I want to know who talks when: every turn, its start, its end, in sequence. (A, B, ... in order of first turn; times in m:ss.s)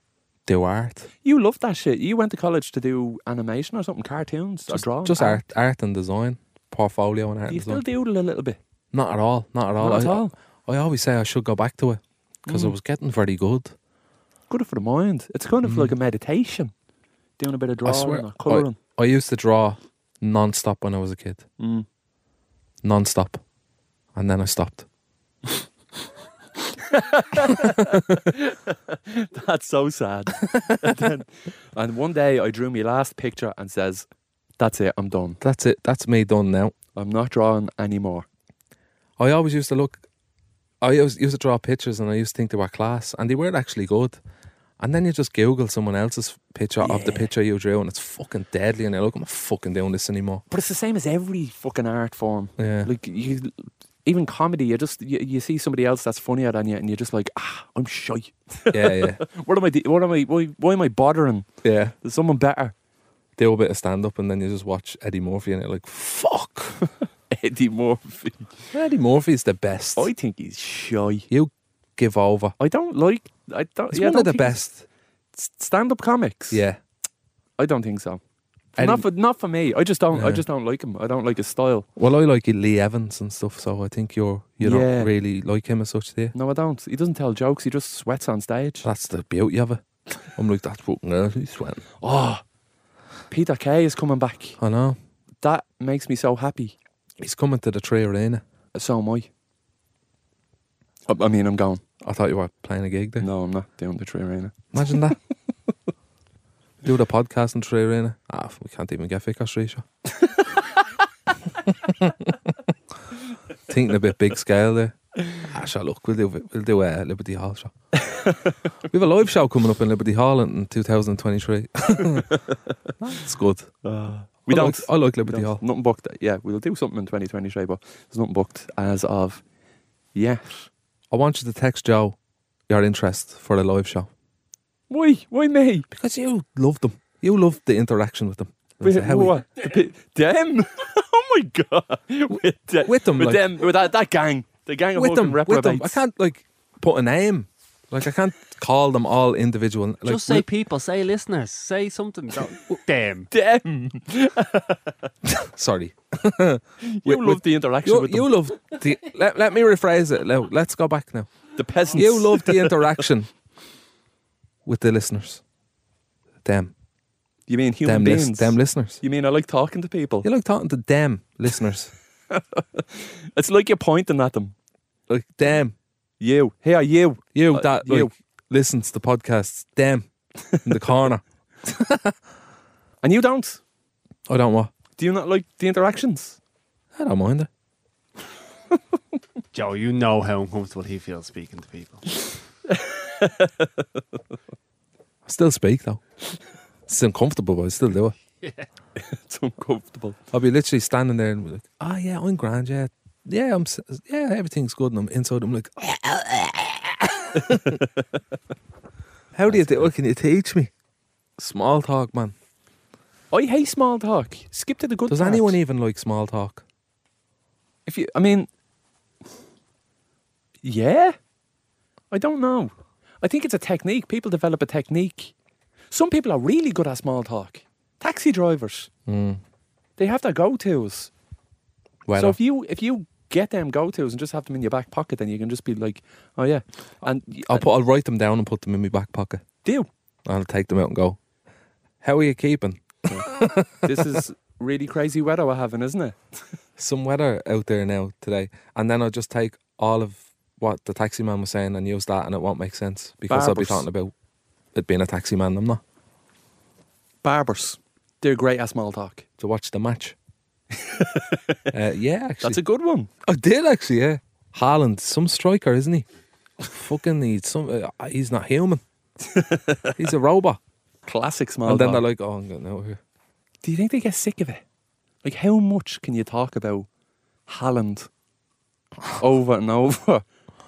0:00.5-0:01.1 A
0:01.2-0:05.5 B
0:04.7-0:07.8 A
0:07.5-0:08.6 B
0:08.9-0:13.8 A
0:09.8-0:10.3 B
0:12.5-0:12.8 B
0:14.5-0:16.7 B
0:15.6-0:15.9 A
0:17.4-0:18.8 B
0:17.8-0:21.4 A
0:21.6-0:21.9 B
0:22.8-0:23.4 A
0:24.2-0:24.9 A
0:26.7-0:34.1 B
0:27.6-0:28.0 A
0:30.4-0:31.0 A
0:34.6-0:35.4 B
0:35.4-0:36.8 A
0:37.0-0:38.3 B
0:39.2-0:40.0 A
0:40.8-0:44.2 A
0:44.8-0:50.4 A
0:46.8-0:47.3 B
0:50.5-1:01.5 B
0:52.6-0:52.9 A
0:58.7-0:59.2 A
1:01.6-1:02.0 A
1:02.0-1:02.8 B
1:03.4-1:06.8 A
1:07.3-1:08.6 B
1:08.7-1:10.1 A
1:10.0-1:11.3 B
1:11.3-1:12.6 A
1:12.6-1:14.6 B
1:13.9-1:14.8 A
1:15.4-1:16.6 B
1:16.5-1:16.8 A
1:17.6-1:18.2 B
1:18.8-1:21.9 B
1:18.8-1:19.1 A
1:20.1-1:20.4 A
1:22.0-1:26.3 A
1:24.6-1:25.1 B
1:26.3-1:28.9 B
1:28.8-1:31.8 A
1:32.0-1:32.4 B
1:33.3-1:34.6 B
1:34.6-1:35.0 A
1:35.4-1:36.8 B
1:37.2-1:38.4 A
1:38.7-1:39.3 B
1:41.1-1:41.8 B
1:42.0-1:43.3 A
1:43.2-1:44.7 B
1:44.7-1:45.2 A
1:46.8-1:49.8 A
1:51.7-1:52.6 A
1:53.7-1:57.7 A
1:58.0-1:58.4 B
1:58.8-2:02.4 A
2:03.0-2:03.7 A
2:03.8-2:09.4 B
2:04.5-2:05.6 A
2:10.1-2:10.7 B
2:11.1-2:12.2 A
2:12.7-2:14.1 A
2:14.9-2:15.9 B
2:15.9-2:19.4 A
2:18.8-2:26.0 B
2:22.8-2:23.4 A
2:25.0-2:30.5 A
2:30.0-2:33.3 C
2:33.3-2:34.9 B
2:35.2-2:41.3 A
2:36.8-2:38.3 B
2:41.6-2:43.0 B
2:41.9-2:43.3 A
2:44.6-2:45.4 A
2:46.4-2:46.7 A
2:47.5-2:50.3 B
2:47.9-2:49.0 A
2:50.2-2:51.9 A
2:52.3-2:54.6 B
2:55.1-2:55.8 A
2:56.2-2:58.1 B
2:57.4-3:00.1 A
3:00.6-3:02.2 A
3:03.0-3:03.6 B
3:04.3-3:04.7 A
3:05.0-3:06.4 B
3:07.0-3:07.5 A
3:09.5-3:12.3 C
3:12.7-3:14.0 B
3:15.2-3:16.0 A
3:16.9-3:18.2 A
3:18.4-3:18.7 C
3:19.0-3:20.2 B
3:20.3-3:27.8 A
3:29.3-3:30.7 A
3:29.5-3:29.9 B
3:31.4-3:32.4 A
3:33.3-3:35.6 B
3:35.1-3:36.6 A
3:37.9-3:38.5 B
3:40.6-3:41.2 B
3:42.1-3:45.3 B
3:45.9-3:48.9 B
3:49.1-3:49.4 A
3:50.0-3:51.1 B
3:52.1-3:52.4 A
3:52.1-3:57.6 B
3:57.4-3:59.4 A
4:00.3-4:01.2 A
4:02.0-4:04.2 A
4:03.8-4:06.2 B
4:06.8-4:14.1 A
4:13.3-4:13.9 B
4:14.8-4:15.8 A
4:17.2-4:19.2 B
4:19.4-4:20.2 A
4:20.7-4:21.6 B
4:21.7-4:22.6 A
4:22.4-4:23.1 B
4:23.2-4:26.1 A
4:26.6-4:28.8 A
4:29.2-4:30.0 B
4:30.0-4:30.6 A
4:31.1-4:32.1 B
4:31.7-4:33.0 A
4:33.6-4:34.6 B
4:35.2-4:36.9 B
4:37.5-4:38.1 B
4:39.2-4:40.2 B